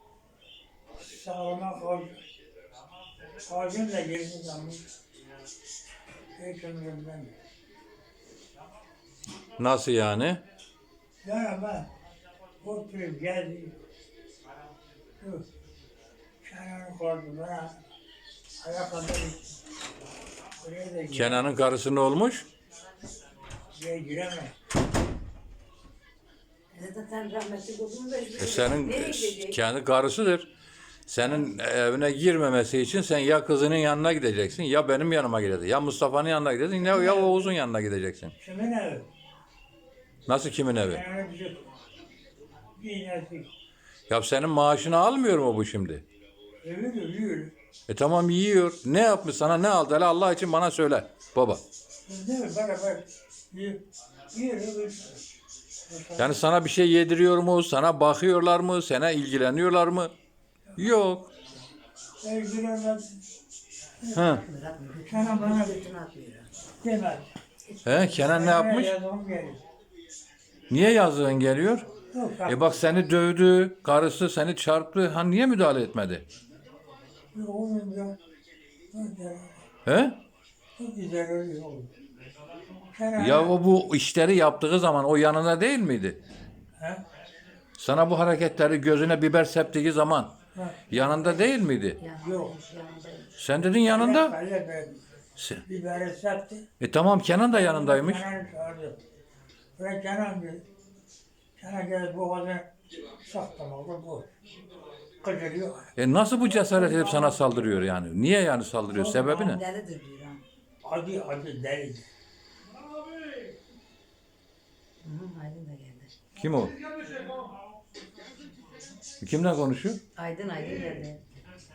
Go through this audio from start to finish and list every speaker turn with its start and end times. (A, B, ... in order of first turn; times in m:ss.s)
0:01.0-0:02.2 A
0:03.4-0:04.8 A
0:06.4-0:07.3 A
0:09.6-0:10.4 B
0:11.2-0:11.9 A
0:12.6-0:13.8 A
0:15.2-0:15.4 A
0:16.4-0:17.8 A
0:18.6-0:19.4 A
0:20.6-0:21.5 A
0:21.1-0:22.5 B
0:23.7-0:24.5 A
0:26.7-0:29.6 C
0:28.4-0:30.5 B
0:31.1-0:38.3 B
0:36.7-0:37.6 A
0:38.4-0:39.1 A
0:40.3-0:41.0 B
0:40.9-0:41.6 A
0:42.8-0:43.5 A
0:44.1-0:46.0 B
0:46.6-0:47.5 A
0:47.9-0:51.6 B
0:52.1-0:55.2 A
0:55.9-0:56.4 A
0:56.2-1:00.1 B
1:00.8-1:01.3 B
1:02.2-1:03.2 A
1:04.0-1:04.4 A
1:04.1-1:04.4 B
1:04.2-1:06.5 C
1:05.1-1:05.9 A
1:06.8-1:07.4 A
1:07.7-1:08.3 C
1:07.8-1:09.0 B
1:08.1-1:09.6 A
1:10.7-1:11.9 B
1:12.1-1:12.8 A
1:12.4-1:16.2 B
1:17.3-1:18.2 A
1:18.9-1:19.6 A
1:19.9-1:20.2 B
1:20.8-1:21.9 A
1:22.9-1:23.5 A
1:23.2-1:26.2 B
1:27.8-1:30.3 B
1:30.6-1:31.5 A
1:30.9-1:32.0 B
1:32.0-1:33.4 C
1:32.2-1:32.5 A
1:33.4-1:34.3 B
1:33.8-1:35.0 A
1:35.4-1:35.6 B
1:35.6-1:36.6 A
1:36.8-1:38.3 B
1:37.5-1:39.0 A
1:39.8-1:40.6 A
1:41.6-1:42.7 A
1:43.2-1:44.3 A
1:45.2-1:45.9 A
1:46.0-1:49.6 B
1:46.5-1:47.5 A
1:48.9-1:50.4 C
1:50.8-1:52.1 A
1:55.0-1:56.1 C
1:56.4-1:56.8 B
1:59.2-2:00.0 B
2:00.2-2:01.2 C